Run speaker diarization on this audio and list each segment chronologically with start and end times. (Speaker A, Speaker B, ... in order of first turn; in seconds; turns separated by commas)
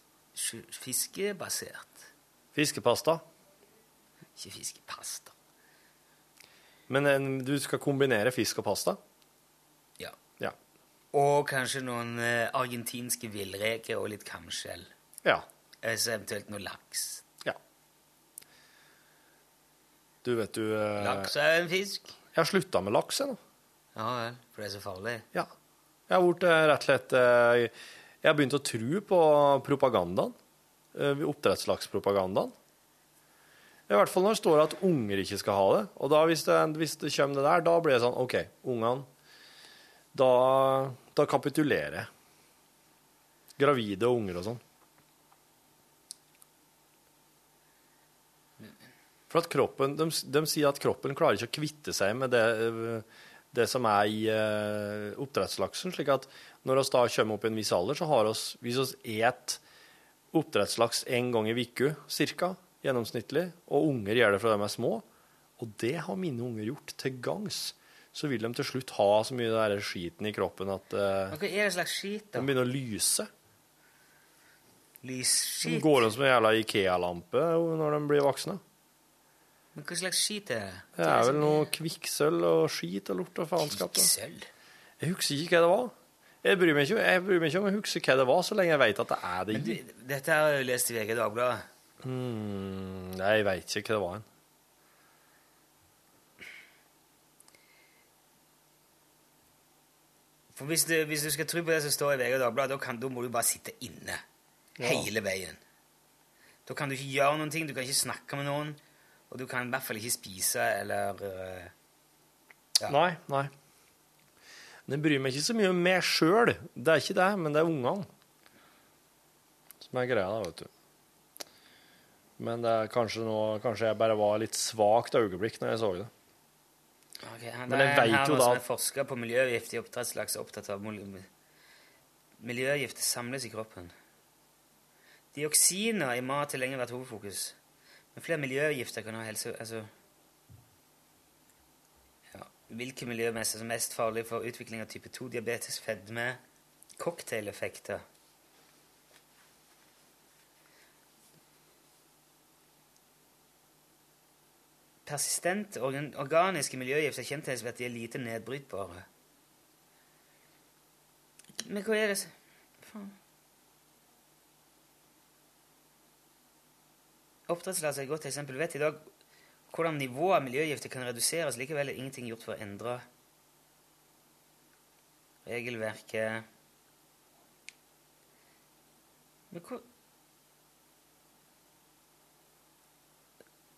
Speaker A: 0.3-2.1, Speaker B: 2.5-3.2, Speaker A: 4.4-5.3, Speaker B: 6.9-9.0, Speaker A: 11.1-14.9, Speaker A: 15.8-17.2, Speaker B: 20.2-21.3, Speaker A: 21.0-22.1, Speaker B: 22.3-23.4, Speaker A: 24.0-25.3, Speaker B: 26.1-27.7, Speaker B: 28.2-30.4, Speaker B: 30.9-32.5, Speaker B: 33.9-39.1, Speaker B: 40.1-42.1, Speaker B: 43.6-44.6, Speaker B: 49.3-59.6, Speaker B: 60.3-65.0, Speaker B: 65.6-71.4, Speaker A: 71.3-72.5, Speaker B: 72.3-73.3, Speaker A: 75.0-76.1, Speaker B: 75.6-78.6, Speaker A: 79.7-81.7, Speaker B: 81.0-84.1, Speaker A: 83.6-84.5, Speaker B: 85.0-89.8, Speaker A: 89.5-91.7, Speaker B: 92.0-94.3, Speaker A: 100.5-104.2, Speaker B: 104.8-105.1, Speaker A: 104.8-105.6, Speaker A: 106.7-108.8, Speaker A: 109.3-111.7, Speaker B: 112.9-113.5, Speaker B: 114.9-118.1, Speaker B: 119.8-120.7, Speaker B: 122.4-126.1, Speaker A: 127.2-131.3, Speaker B: 127.7-128.6, Speaker A: 132.4-133.9, Speaker A: 135.3-137.6, Speaker A: 138.1-139.9, Speaker A: 142.3-146.4, Speaker A: 147.0-148.0, Speaker A: 155.1-159.1, Speaker A: 161.6-163.2, Speaker A: 167.5-169.1, Speaker A: 169.7-173.1, Speaker A: 175.4-176.4, Speaker A: 179.5-179.8